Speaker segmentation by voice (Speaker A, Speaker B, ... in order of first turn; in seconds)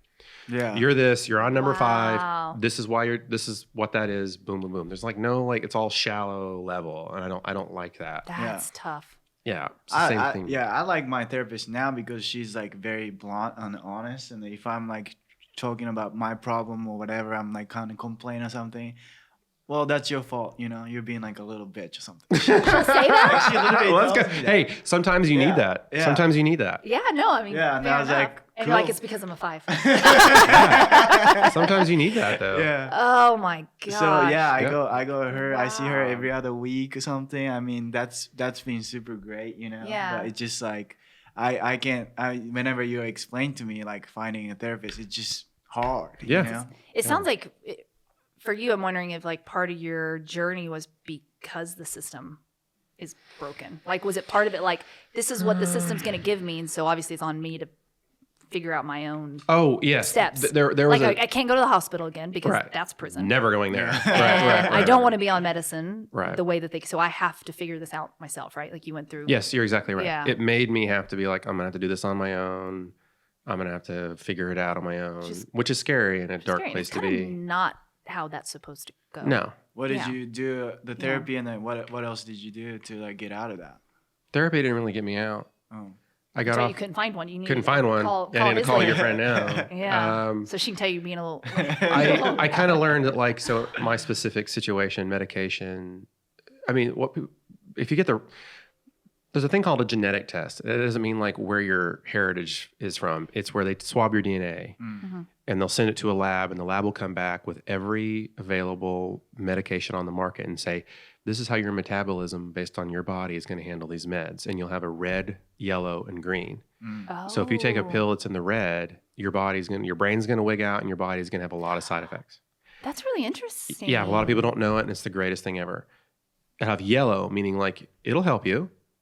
Speaker A: 0.5-0.9, 8.3-8.7, 9.9-19.0, 19.7-24.6, 25.3-26.3, 27.5-28.9, 29.7-32.9, 33.9-46.7, 63.7-64.9, 79.7-83.8, 85.7-86.0, 88.6-89.7, 91.5-92.7, 104.8-105.1, 116.8-117.1
Speaker B: 0.7-8.3, 9.4-10.6, 22.4-26.8, 30.4-30.9, 31.5-32.7, 34.5-34.9, 46.2-47.2, 59.5-61.2, 62.4-65.2, 66.1-66.4, 69.2-72.9, 73.5-77.4, 79.2-79.6, 84.3-85.5, 86.3-86.8, 87.4-90.5, 91.9-96.1, 96.7-98.2, 99.3-104.8, 105.5-116.6, 117.3-122.4, 123.7-125.8, 126.6-128.7
Speaker C: 1.5-2.6, 8.2-9.2, 22.6-23.4, 26.8-31.1, 32.9-34.4, 35.5-36.3, 39.8-40.3, 46.9-47.8, 48.4-52.4, 53.0-57.7, 58.5-63.4, 64.1-69.4, 69.9-70.3, 76.4-80.2, 81.0-81.3, 86.5-89.0, 89.7-92.6, 105.0-105.3, 117.1-118.0, 122.8-124.5